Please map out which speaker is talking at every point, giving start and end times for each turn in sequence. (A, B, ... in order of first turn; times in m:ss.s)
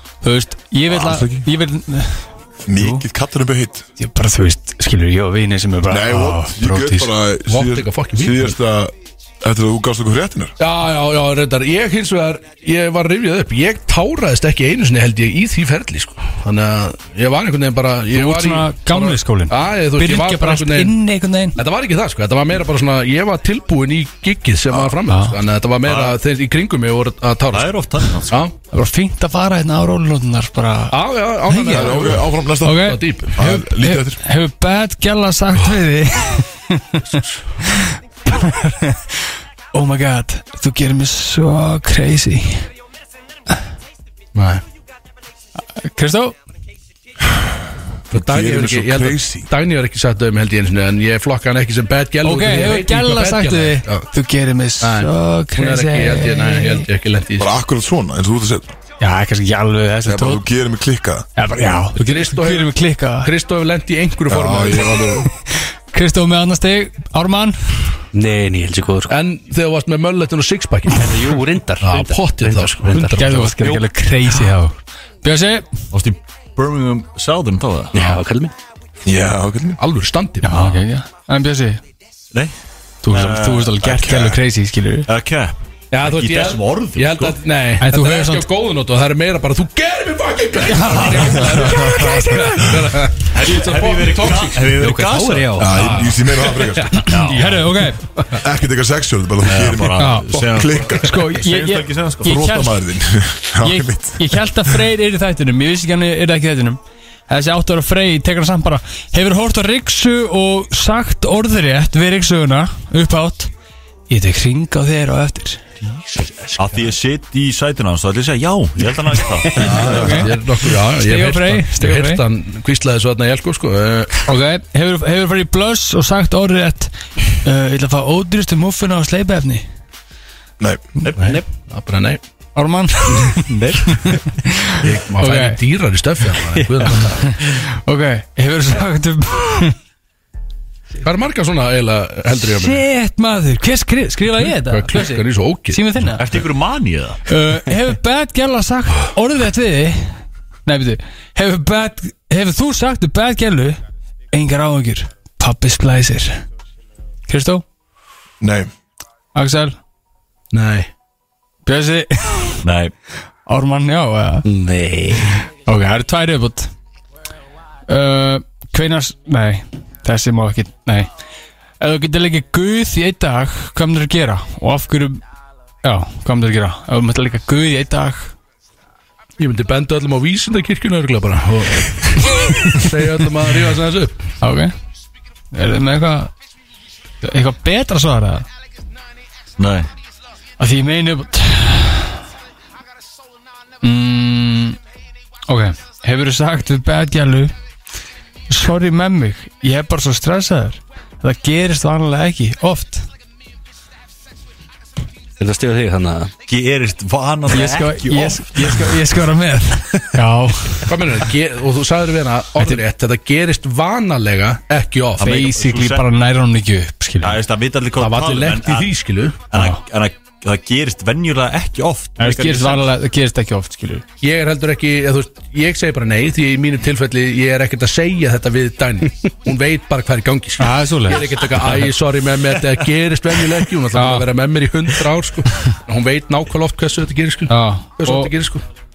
0:00.2-0:03.0 A
0:00.9-0:01.5 B
0:02.6-0:03.9 B
0:04.0-0:07.1 A
0:05.9-0:10.5 B
0:07.5-0:08.6 C
0:10.6-0:20.9 C
0:18.1-0:21.6 A
0:21.6-0:28.5 C
0:25.1-0:25.4 A
0:25.8-0:26.2 D
0:27.5-0:28.4 D
0:28.7-0:31.0 A
0:30.9-0:33.4 C
0:31.5-0:37.0 A
0:31.6-0:34.2 B
0:37.0-0:37.4 C
0:37.6-0:39.2 A
0:39.7-0:42.7 A
0:44.3-0:44.6 C
0:45.8-0:46.4 A
0:48.1-0:49.5 B
0:48.1-0:54.0 C
0:52.2-0:56.8 A
0:54.8-0:57.5 C
0:57.4-0:58.8 B
0:59.0-1:00.4 A
1:00.0-1:01.3 B
1:01.4-1:03.3 A
1:02.0-1:05.2 C
1:04.3-1:05.3 B
1:05.5-1:07.6 A
1:08.1-1:09.1 E
1:09.1-1:11.2 C
1:10.9-1:13.8 E
1:11.8-1:13.8 C
1:13.2-1:15.7 A
1:15.9-1:18.0 D
1:17.9-1:18.5 E
1:19.0-1:19.8 B
1:19.8-1:20.8 C
1:20.4-1:21.8 A
1:23.0-1:25.1 A
1:23.1-1:24.3 D
1:23.9-1:24.3 B
1:25.1-1:27.4 D
1:25.9-1:34.8 C
1:27.8-1:28.5 A
1:30.7-1:32.6 A
1:33.2-1:35.7 D
1:34.8-1:35.9 E
1:35.6-1:37.1 B
1:35.7-1:38.4 C
1:37.0-1:37.6 D
1:37.3-1:38.0 A
1:38.4-1:41.1 B
1:39.4-1:42.4 D
1:40.0-1:40.3 A
1:41.0-1:42.8 A
1:42.2-1:44.5 B
1:43.6-1:53.5 A
1:54.1-1:55.6 A
1:56.6-2:00.1 D
1:59.5-2:00.3 A
1:59.6-2:04.2 C
2:01.0-2:02.2 A
2:04.3-2:09.6 A
2:11.0-2:11.4 D
2:11.2-2:12.2 C
2:11.2-2:11.4 E
2:12.6-2:15.6 A
2:13.3-2:14.2 E
2:14.8-2:17.2 C
2:16.9-2:19.7 A
2:21.0-2:22.8 C
2:22.4-2:26.3 A
2:24.7-2:25.8 C
2:26.2-2:27.2 D
2:27.3-2:33.8 A
2:34.3-2:36.4 A
2:37.3-2:37.6 A
2:38.4-2:38.7 B
2:39.3-2:39.8 A
2:40.5-2:40.9 C
2:41.6-2:42.6 A
2:42.6-2:42.9 D
2:43.5-2:44.4 A
2:44.4-2:45.3 E
2:45.6-2:46.7 A
2:47.9-2:51.1 A
2:51.8-2:55.2 A
2:55.8-2:58.3 A
2:59.4-3:04.2 C
3:04.4-3:04.7 A
3:05.5-3:06.3 A
3:07.2-3:08.4 A
3:09.6-3:09.9 D
3:10.6-3:12.2 A
3:13.8-3:14.8 A
3:15.5-3:17.5 A
3:18.5-3:23.1 A
3:25.4-3:26.3 E
3:26.4-3:28.8 D
3:27.5-3:30.9 A
3:30.9-3:35.4 C
3:35.2-3:36.0 D
3:35.2-3:37.4 A
3:37.2-3:39.0 D
3:38.0-3:39.4 C
3:39.5-3:42.8 D
3:39.5-3:39.8 A
3:42.2-3:44.0 A
3:44.2-3:58.6 C
3:50.6-3:51.2 A
3:53.9-3:54.2 A
3:57.5-3:58.3 A